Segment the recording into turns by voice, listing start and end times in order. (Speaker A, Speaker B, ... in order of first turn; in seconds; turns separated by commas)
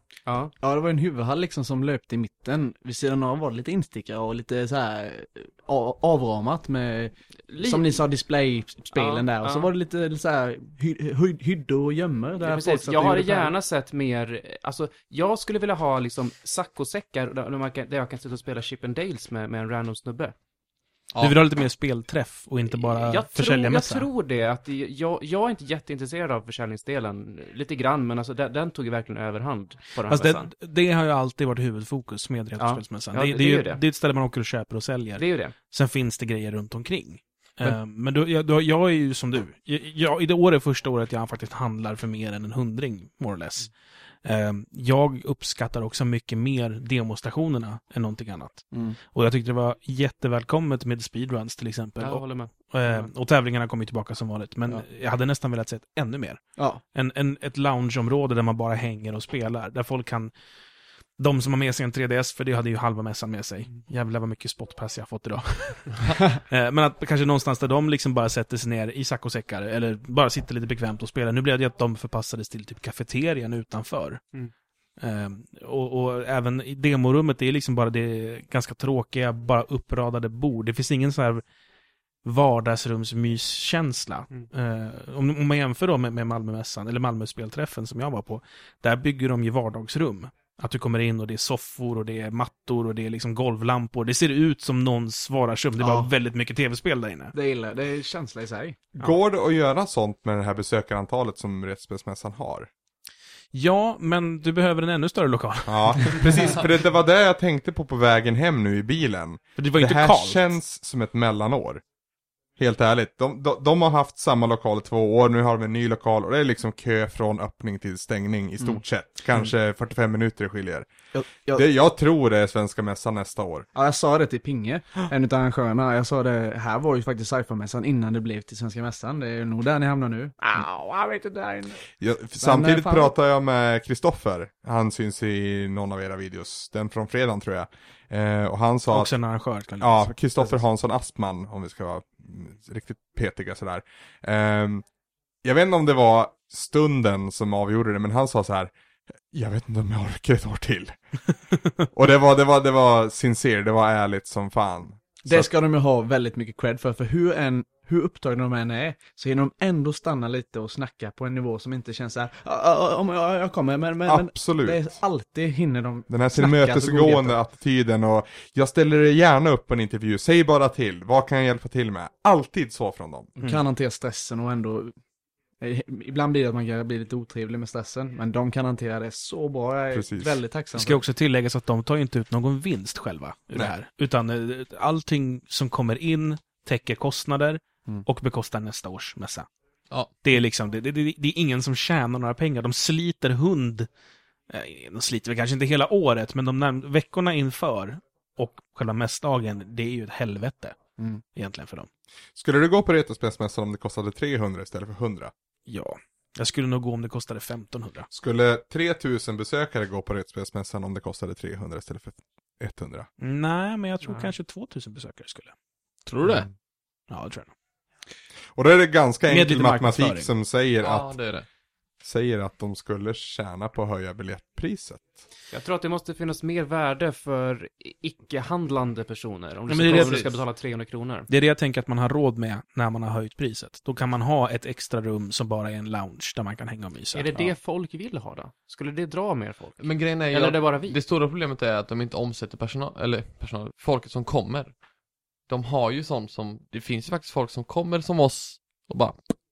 Speaker A: 0.3-0.5, Speaker B: 0.6-13.5, Speaker A: 7.5-8.0, Speaker A: 8.9-9.7, Speaker A: 12.4-20.3, Speaker C: 21.1-21.4, Speaker D: 21.2-24.1, Speaker A: 22.7-30.5, Speaker D: 30.1-43.7, Speaker A: 32.6-33.8, Speaker A: 35.2-35.5, Speaker D: 44.2-56.4, Speaker B: 48.7-49.0, Speaker A: 52.0-53.1, Speaker D: 56.9-60.3, Speaker D: 61.2-74.2, Speaker D: 75.0-81.4, Speaker D: 82.2-97.3, Speaker B: 95.8-96.1, Speaker B: 97.3-98.9, Speaker E: 99.0-102.7, Speaker D: 103.5-106.5, Speaker E: 105.7-111.8, Speaker D: 109.6-110.5, Speaker E: 112.6-120.9, Speaker B: 121.1-121.7, Speaker E: 121.5-123.7, Speaker B: 123.7-131.8, Speaker E: 132.0-139.1, Speaker B: 132.4-133.1, Speaker D: 138.9-140.5, Speaker E: 139.8-144.8, Speaker E: 145.4-148.7, Speaker E: 149.3-150.9, Speaker E: 151.9-155.5, Speaker B: 155.2-167.4, Speaker E: 164.1-164.9, Speaker E: 166.1-173.3, Speaker B: 173.4-174.9, Speaker B: 175.6-181.0, Speaker E: 179.9-180.3, Speaker D: 180.7-189.5, Speaker D: 190.2-193.9, Speaker D: 194.5-200.8, Speaker D: 201.3-201.9, Speaker E: 202.3-205.3, Speaker D: 205.7-208.1, Speaker E: 208.1-213.1, Speaker D: 213.2-215.5, Speaker C: 216.1-216.5, Speaker D: 217.1-217.5, Speaker E: 218.5-221.1, Speaker D: 219.3-220.3, Speaker C: 220.8-221.4, Speaker E: 222.0-225.2, Speaker A: 225.5-231.3, Speaker D: 229.7-230.2, Speaker C: 229.8-230.4, Speaker D: 231.3-237.4, Speaker A: 237.1-241.0, Speaker C: 239.8-244.7, Speaker C: 245.5-249.2